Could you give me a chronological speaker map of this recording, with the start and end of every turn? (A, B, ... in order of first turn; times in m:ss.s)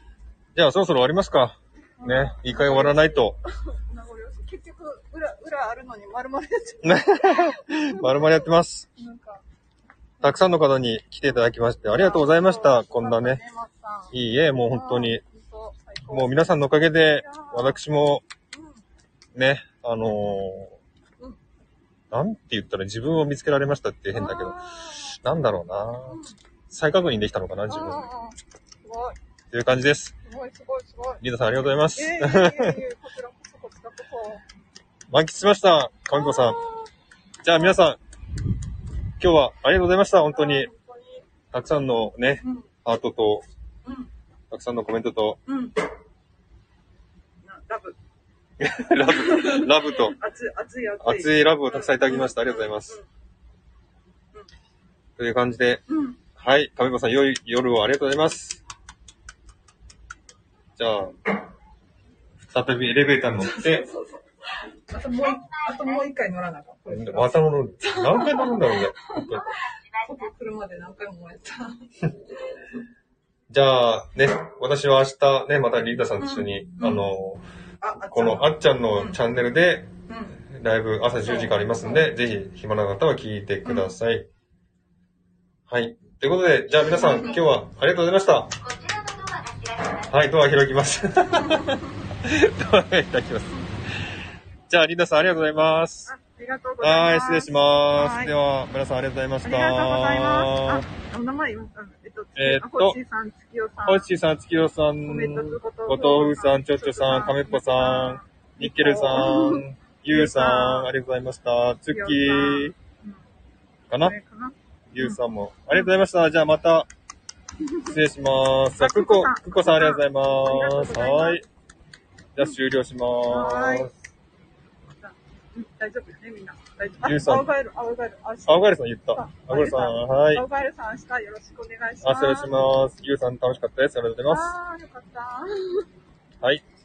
0:00.6-0:03.4 A
0:02.0-0:08.2 B
0:06.8-0:08.8 A
0:09.0-0:09.4 B
0:10.2-0:13.4 A
0:11.9-0:16.5 B
0:14.1-0:15.2 A
0:16.1-0:18.2 A
0:17.2-0:17.8 B
0:19.3-0:20.7 A
0:22.1-0:24.6 A
0:24.1-0:25.2 B
0:25.2-0:26.2 A
0:26.0-0:26.3 B
0:26.7-0:28.1 A
0:27.7-0:29.2 B
0:29.5-0:30.1 A
0:30.3-0:31.2 B
0:31.2-0:32.8 A
0:31.9-0:34.4 B
0:35.1-0:36.6 A
0:36.1-0:36.8 B
0:37.4-0:38.0 A
0:39.2-0:40.7 A
0:40.3-0:41.2 B
0:41.5-0:43.4 A
0:42.4-0:42.7 B
0:43.8-0:44.1 B
0:44.5-0:45.4 A
0:45.4-0:45.8 B
0:47.4-0:48.0 B
0:48.6-0:50.2 A
0:49.0-0:53.0 B
0:51.0-0:53.0 A
0:55.2-0:55.8 A
0:55.9-0:56.2 B
0:56.4-0:58.6 A
1:00.8-1:01.2 A
1:02.5-1:03.8 A
1:03.4-1:11.8 B
1:05.4-1:06.0 C
1:06.9-1:09.4 A
1:13.5-1:17.4 A
1:16.2-1:17.1 B
1:17.8-1:19.2 B
1:18.1-1:19.9 A
1:20.1-1:20.4 B
1:20.4-1:24.3 A
1:21.2-1:22.1 B
1:23.6-1:23.9 B
1:25.7-1:28.6 A
1:27.0-1:27.4 B
1:28.6-1:30.1 C
1:30.1-1:36.1 A
1:36.0-1:38.3 B
1:36.8-1:40.8 A
1:39.4-1:44.1 B
1:42.4-1:43.0 A
1:43.8-1:52.7 A
1:45.0-1:50.9 B
1:51.9-1:53.2 B
1:53.9-1:54.1 A
1:54.0-1:55.2 B
1:54.9-1:56.9 A
1:57.6-1:58.0 B
1:57.8-2:01.4 A
1:58.8-2:01.4 B
2:02.4-2:03.9 A
2:03.3-2:03.9 B
2:05.0-2:12.5 B
2:07.0-2:07.5 A
2:08.4-2:10.4 A
2:12.0-2:14.6 A
2:14.3-2:15.8 B